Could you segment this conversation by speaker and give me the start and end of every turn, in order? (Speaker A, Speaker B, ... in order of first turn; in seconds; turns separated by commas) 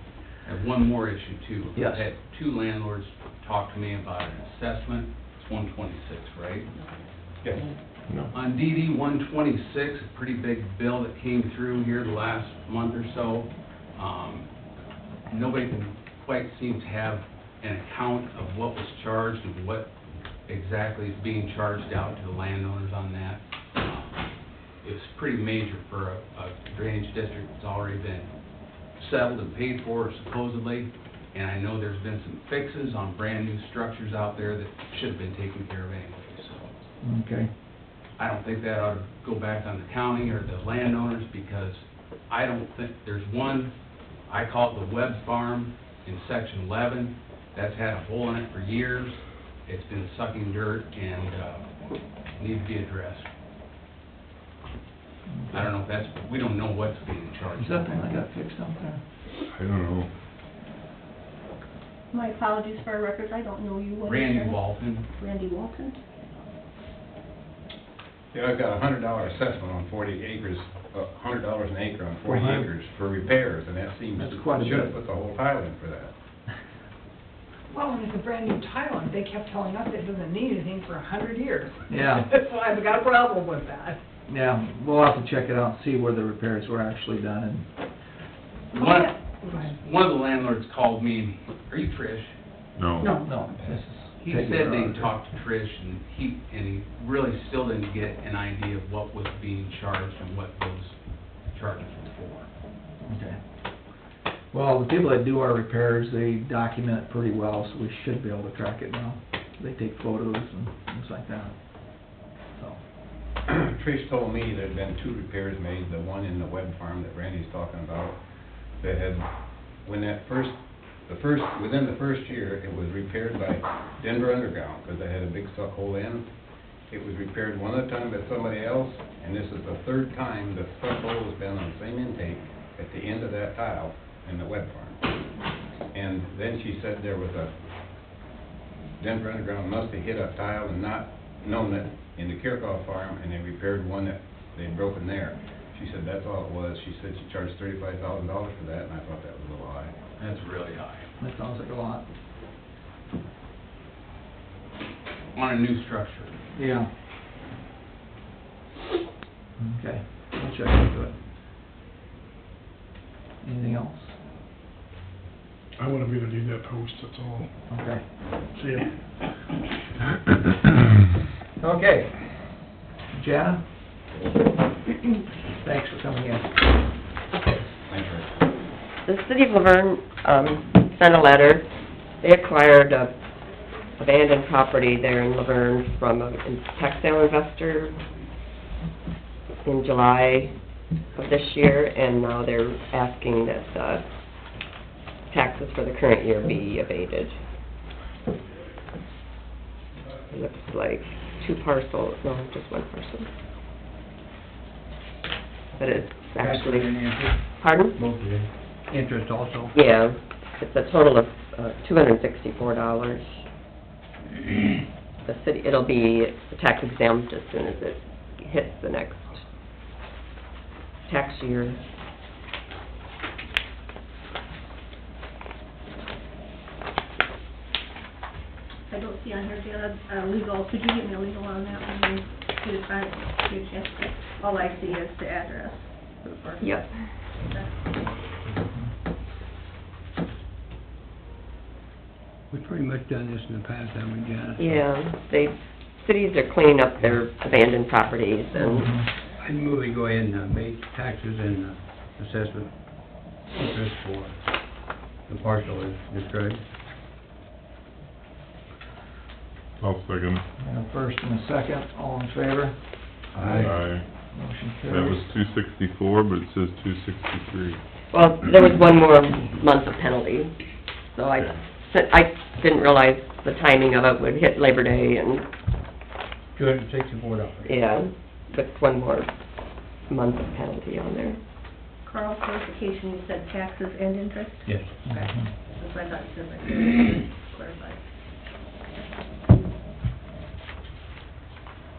Speaker A: 0.5-6.7, Speaker B: 1.8-2.1, Speaker A: 8.3-14.5, Speaker A: 15.3-19.9, Speaker A: 20.5-24.3, Speaker A: 24.8-28.3, Speaker A: 29.0-36.7, Speaker B: 37.0-37.5, Speaker A: 38.2-43.7, Speaker A: 44.3-51.7, Speaker A: 52.4-53.3, Speaker B: 55.3-55.7, Speaker A: 55.5-58.1, Speaker B: 57.5-59.0, Speaker C: 59.5-60.1, Speaker D: 62.1-66.0, Speaker A: 64.0-65.1, Speaker E: 68.3-76.1, Speaker B: 72.2-72.7, Speaker B: 74.2-74.9, Speaker F: 77.7-84.0, Speaker B: 81.9-82.3, Speaker B: 84.3-87.7, Speaker A: 88.7-92.3, Speaker F: 88.8-89.7, Speaker C: 92.8-93.2, Speaker B: 93.1-95.2, Speaker A: 94.2-101.0, Speaker A: 101.5-102.5, Speaker B: 103.0-103.4, Speaker B: 104.5-112.8, Speaker E: 113.5-118.2, Speaker E: 118.8-119.3, Speaker E: 119.8-120.6, Speaker E: 121.1-126.2, Speaker E: 126.9-135.0, Speaker E: 135.9-137.5, Speaker E: 139.0-149.9, Speaker A: 150.2-151.1, Speaker B: 151.2-152.1, Speaker A: 155.3-156.4, Speaker B: 156.5-156.9, Speaker B: 159.6-161.2, Speaker B: 163.4-164.2, Speaker G: 165.8-167.5, Speaker B: 167.7-168.0, Speaker G: 168.5-169.0, Speaker B: 171.6-172.1, Speaker B: 173.1-173.6, Speaker B: 175.6-176.5, Speaker E: 177.8-178.3, Speaker H: 179.1-181.7, Speaker H: 182.2-183.2, Speaker H: 184.0-188.0, Speaker H: 189.7-190.6, Speaker H: 191.2-194.1, Speaker H: 195.3-197.4, Speaker H: 200.3-203.3, Speaker H: 205.8-206.9, Speaker I: 206.4-207.4, Speaker H: 207.6-208.0, Speaker I: 207.9-209.8, Speaker H: 209.7-213.4, Speaker H: 215.2-219.4, Speaker H: 221.1-221.8, Speaker D: 228.9-236.6, Speaker H: 236.6-237.1, Speaker D: 237.5-237.8, Speaker I: 242.5-244.9, Speaker H: 244.6-248.9, Speaker B: 248.6-249.1, Speaker I: 249.4-256.6, Speaker C: 259.8-260.4, Speaker B: 260.6-262.8, Speaker I: 263.3-263.8, Speaker C: 263.4-264.1, Speaker B: 264.3-265.3, Speaker C: 264.9-267.8, Speaker H: 268.1-270.6, Speaker H: 271.1-275.5, Speaker C: 271.4-271.6, Speaker I: 276.5-277.8, Speaker H: 277.6-279.3, Speaker H: 280.1-281.4, Speaker D: 282.0-288.0, Speaker I: 284.6-285.0, Speaker B: 285.1-285.5